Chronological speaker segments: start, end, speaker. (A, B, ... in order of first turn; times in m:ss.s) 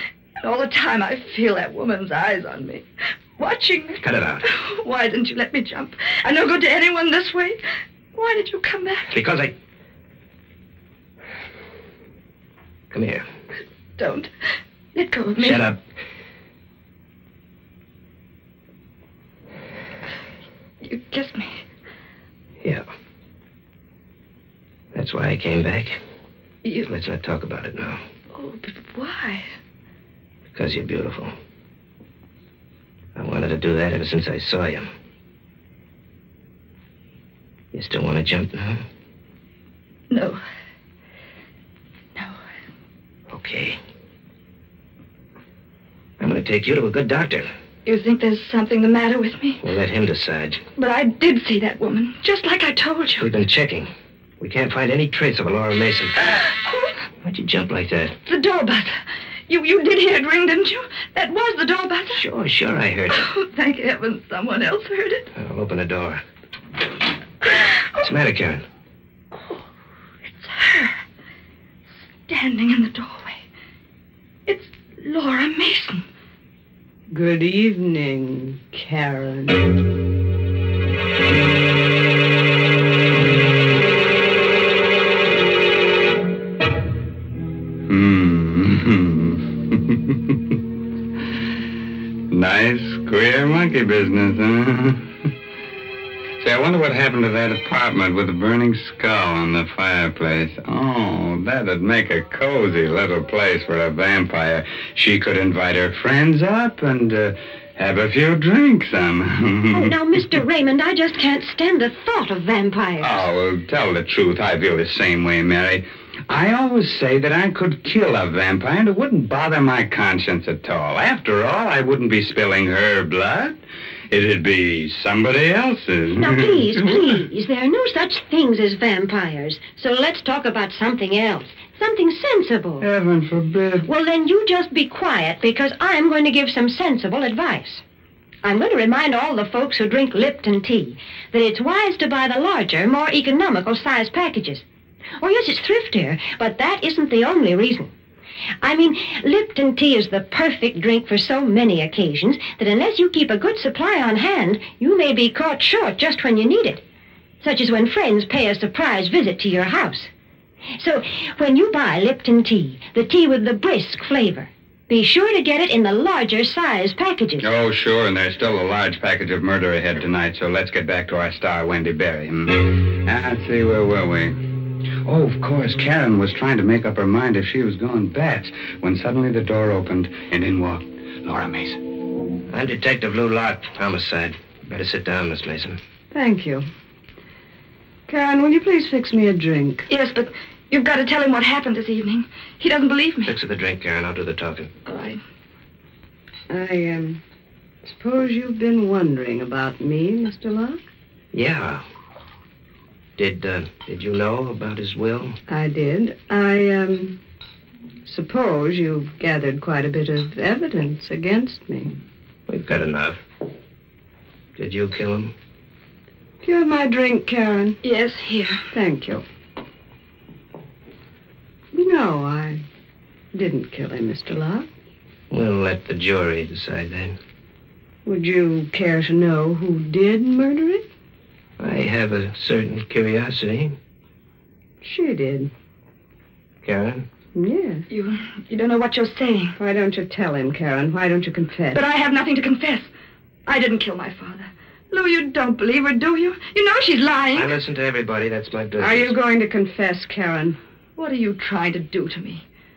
0:00.4-0:02.8 A
0:03.4-0:07.6 A
0:04.0-0:04.4 B
0:08.1-0:09.1 A
0:09.1-0:09.5 B
0:12.9-0:13.2 B
0:14.0-0:14.3 A
0:14.9-0:15.7 A
0:15.4-0:15.8 B
0:20.8-0:21.6 A
0:24.9-0:26.0 B
0:26.6-0:26.9 A
0:26.8-0:28.0 B
0:28.3-0:29.5 A
0:30.5-0:31.3 B
0:33.2-0:34.9 B
0:37.7-0:38.8 B
0:40.1-0:40.4 A
0:43.3-0:43.8 B
0:46.2-0:47.5 B
0:47.8-0:49.6 A
0:49.6-0:50.6 B
0:50.8-0:53.3 A
0:53.2-0:56.1 B
0:56.3-0:56.9 A
0:57.2-0:58.2 B
0:58.2-1:02.2 A
1:02.1-1:03.2 B
1:03.1-1:05.3 A
1:05.3-1:06.2 B
1:08.0-1:08.6 B
1:10.4-1:11.0 A
1:12.3-1:13.4 A
1:14.5-1:16.0 A
1:17.1-1:19.8 C
1:27.9-1:30.6 D
1:32.3-1:35.0 D
1:36.4-1:49.9 D
1:49.7-1:53.2 E
1:53.0-2:03.6 D
2:04.1-2:07.2 D
2:06.2-2:12.9 E
2:12.8-2:13.9 D
2:13.8-2:17.8 E
2:18.4-2:24.6 E
2:25.2-2:27.9 E
2:28.6-2:36.8 E
2:37.4-2:40.1 E
2:40.8-2:47.5 E
2:47.4-2:54.4 D
2:55.0-3:01.8 D
3:02.5-3:05.8 B
3:06.1-3:06.6 C
3:08.1-3:09.9 C
3:09.9-3:13.3 A
3:13.2-3:14.7 B
3:14.8-3:15.2 A
3:16.5-3:17.2 C
3:17.8-3:20.8 C
3:21.3-3:21.8 B
3:23.2-3:25.4 B
3:25.5-3:27.2 C
3:28.0-3:31.9 C
3:32.5-3:33.2 B
3:34.6-3:35.3 B
3:36.4-3:37.8 C
3:37.8-3:38.6 A
3:38.7-3:39.2 C
3:41.7-3:42.6 C
3:43.3-3:44.7 C
3:45.3-3:47.2 B
3:48.0-3:50.8 C
3:51.6-3:53.8 B
3:54.8-3:55.5 C
3:56.6-3:57.0 B
3:57.3-3:57.8 C
3:57.9-3:59.6 A
3:59.6-4:01.8 C
4:01.7-4:02.9 A
4:03.4-4:07.5 A
4:07.3-4:09.2 B
4:08.8-4:10.6 C
4:11.0-4:12.4 A